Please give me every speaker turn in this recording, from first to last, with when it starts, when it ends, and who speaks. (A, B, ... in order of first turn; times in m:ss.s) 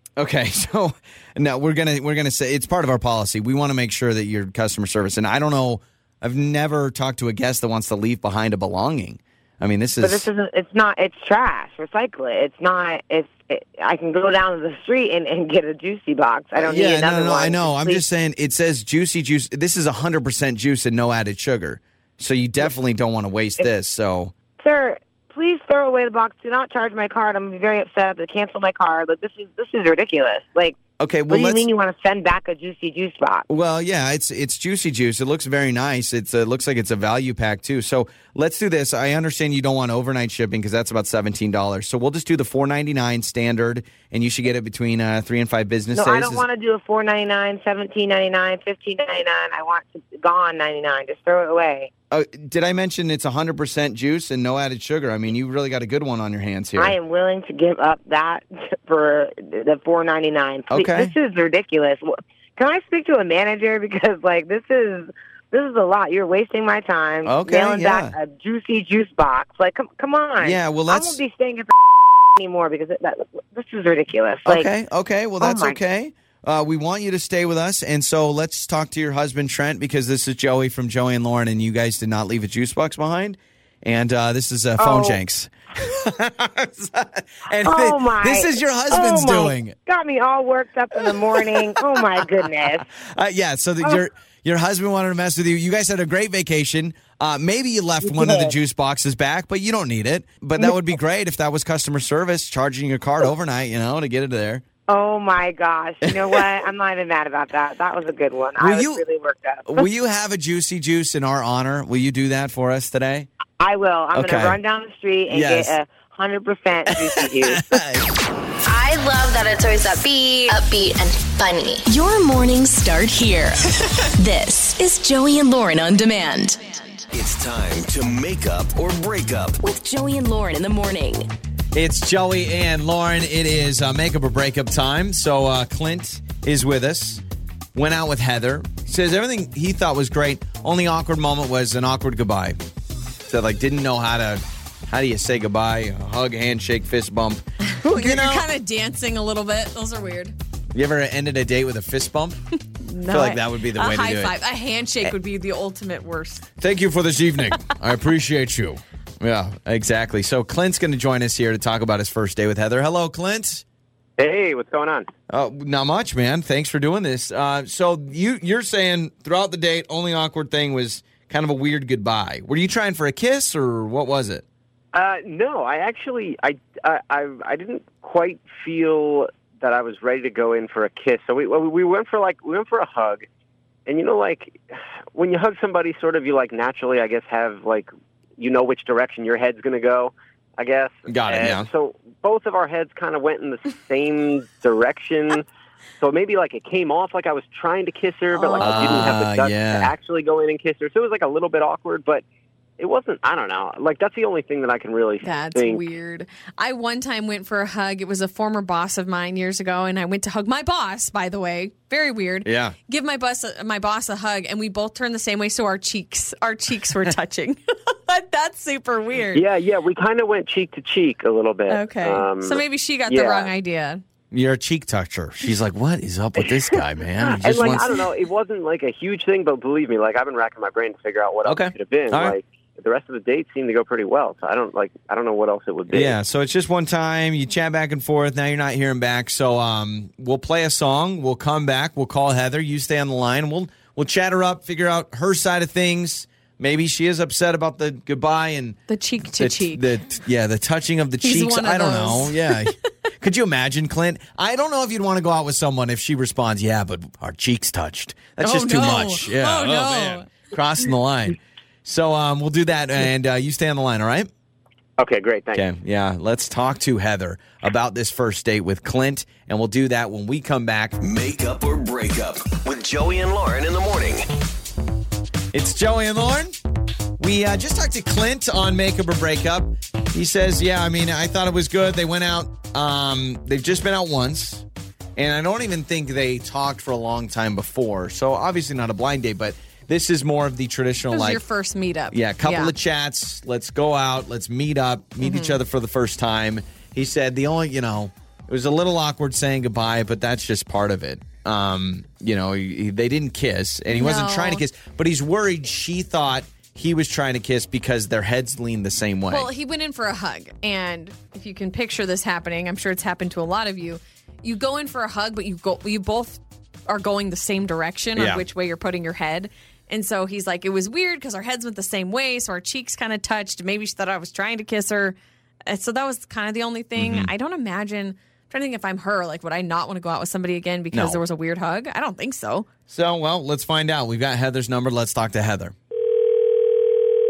0:00.2-0:10.3 A
0:10.0-0:18.0 B
0:16.6-0:24.3 A
0:24.6-0:33.5 B
0:31.0-0:31.7 A
0:33.5-0:46.4 A
0:45.9-0:51.9 B
0:52.1-0:57.0 A
0:56.8-1:11.8 B
1:00.7-1:01.1 A
1:07.2-1:08.1 A
1:10.4-1:11.2 A
1:12.3-1:14.7 B
1:14.4-1:29.8 A
1:15.4-1:15.8 B
1:24.8-1:25.2 B
1:27.6-1:32.9 B
1:31.0-1:32.2 A
1:32.9-1:44.6 A
1:38.0-1:38.5 B
1:44.9-1:49.8 B
1:46.1-1:46.4 A
1:48.6-1:49.0 A
1:49.6-1:53.3 A
1:53.6-1:57.8 B
1:54.1-1:54.6 A
1:55.3-1:55.7 A
1:56.9-1:58.1 A
1:58.6-2:01.9 C
2:01.9-2:07.0 D
2:07.1-2:09.6 E
2:09.6-2:11.3 D
2:11.7-2:17.2 A
2:17.7-2:22.6 A
2:23.3-2:28.5 A
2:27.8-2:30.3 F
2:30.7-2:32.4 A
2:32.8-2:36.4 F
2:33.1-2:34.4 A
2:36.6-2:43.6 A
2:44.2-2:45.1 G
2:45.3-2:54.4 A
2:54.9-3:03.3 G
3:03.8-3:15.5 G
3:11.1-3:11.7 A
3:16.0-3:22.2 G
3:18.4-3:19.1 F
3:18.6-3:19.9 A
3:22.8-3:25.8 G
3:25.2-3:39.4 F
3:32.4-3:32.8 A
3:39.3-3:43.5 G
3:41.7-3:44.0 F
3:44.3-3:48.0 A
3:47.3-3:56.1 G
3:51.4-3:52.4 A
3:55.9-4:24.3 A
4:08.9-4:09.9 F
4:11.2-4:12.8 F
4:18.4-4:20.3 F
4:25.0-4:25.7 G
4:25.5-4:31.0 A
4:31.0-4:34.2 E
4:35.5-4:36.6 A
4:37.2-4:51.4 A
4:51.1-4:52.7 F
4:52.1-5:09.5 A
4:55.2-4:55.6 F
5:03.9-5:04.6 F
5:09.3-5:32.7 F
5:18.2-5:18.4 A
5:27.0-5:27.3 A
5:30.9-5:31.2 A
5:32.9-5:35.7 A